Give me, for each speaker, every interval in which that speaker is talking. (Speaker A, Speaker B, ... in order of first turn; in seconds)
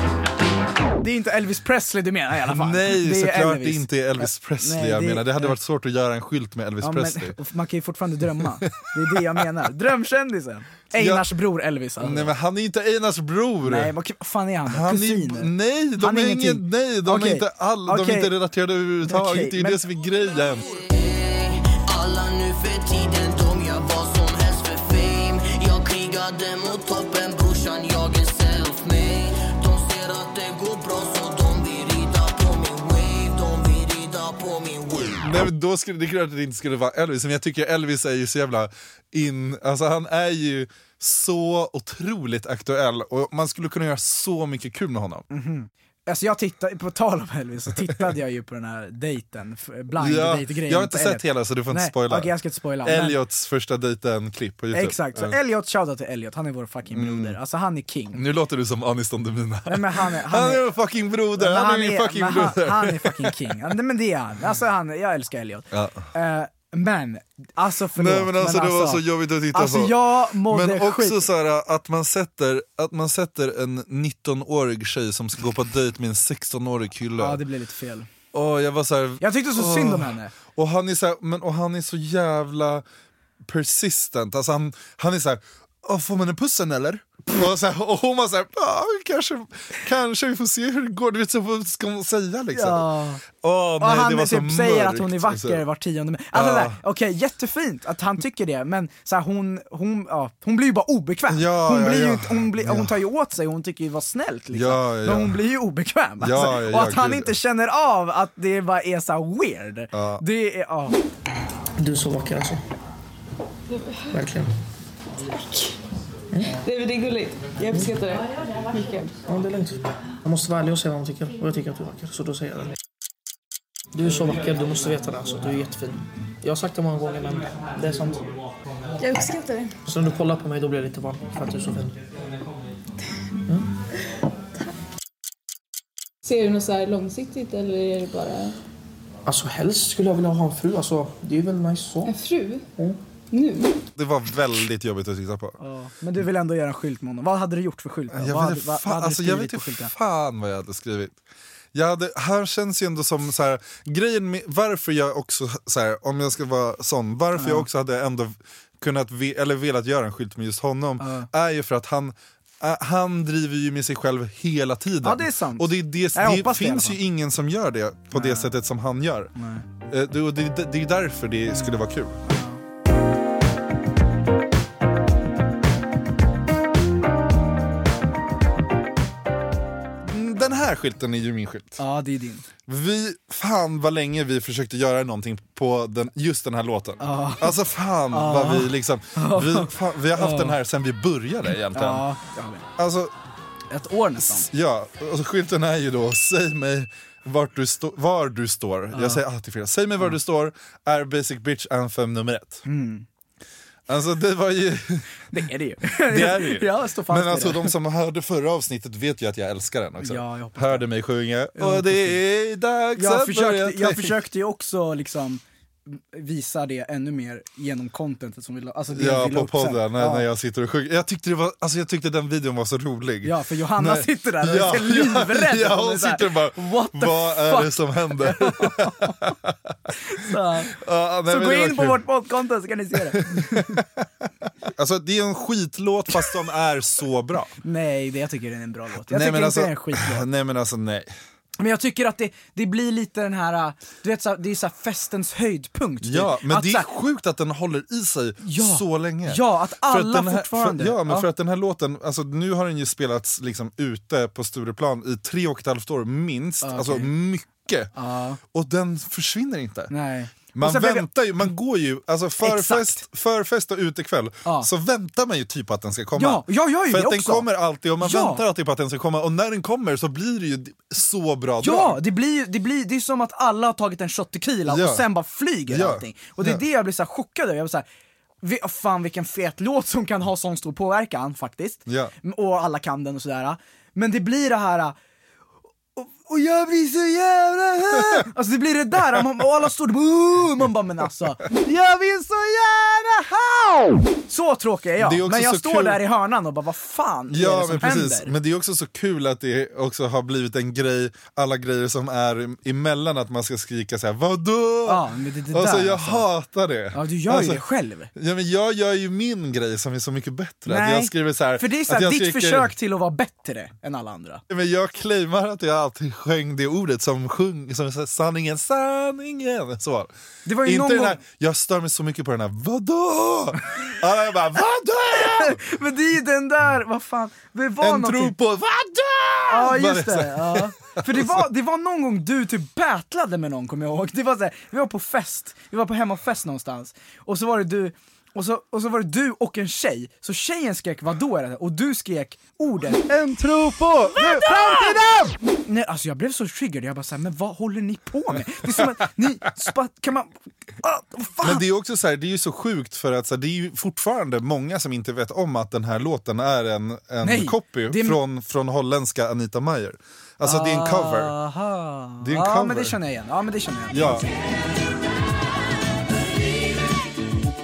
Speaker A: 1.0-5.5, 6.8-12.3, 13.6-18.3, 19.0-19.8, 45.3-53.2, 54.7-58.2, 59.7-60.6, 61.4-71.2, 77.2-78.1, 79.2-80.3, 92.5-93.2, 93.8-111.0, 145.6-149.9, 157.3-157.7, 161.0-161.3, 165.0-167.0, 168.1-168.5, 169.3-169.6, 172.2-172.6, 181.8-182.4, 187.0-187.5, 188.1-190.6, 191.7-192.7, 193.7-194.5, 198.9-199.2, 202.7-203.1, 205.3-207.7, 210.0-210.8, 211.5-212.2, 212.9-220.2, 223.2-229.3, 230.0-230.8, 231.3-233.8, 237.6-240.2, 241.6-246.9, 248.4-251.3, 256.6-257.1, 257.9-258.4, 259.9-261.1, 262.4-263.0, 266.1-267.5, 268.0-268.4, 271.6-277.8, 278.4-284.9, 285.9-298.3, 304.9-306.2, 306.9-308.1, 310.6-314.4, 320.4-321.2, 325.1-328.3, 329.5-351.6, 357.2-358.2, 360.4-364.3
Speaker B: 2.5-7.3, 8.6-9.4, 10.9-11.3, 12.0-13.9, 14.7-20.6, 35.2-45.2, 50.0-52.3, 52.8-55.4, 56.9-57.4, 58.1-63.5, 65.7-66.0, 68.0-77.4, 78.3-82.8, 83.4-95.6, 96.3-96.8, 101.3-103.0, 104.5-105.4, 106.2-107.3, 109.9-110.2, 143.9-145.6, 148.1-151.2, 151.7-169.3, 169.9-172.2, 180.0-181.8, 182.7-192.1, 192.8-193.1, 194.2-202.6, 203.9-205.1, 206.1-214.2, 218.9-232.0, 233.1-237.5, 239.1-241.1, 246.0-257.9, 258.4-259.9, 260.5-272.0, 274.7-275.0, 275.7-276.6, 281.9-282.1, 295.0-296.0, 297.3-307.6, 308.1-312.7, 314.5-320.1, 320.6-325.6, 327.8-331.4, 343.9-345.2, 351.4-361.3, 362.2-362.9, 363.9-364.2
Speaker C: 20.8-35.2
Speaker D: 111.8-112.6, 114.1-114.5, 119.3-122.7, 123.9-128.3, 129.8-132.0, 139.2-142.1
Speaker E: 115.3-115.7, 116.5-119.2, 129.0-129.7, 136.2-138.5, 142.0-142.6, 143.3-143.8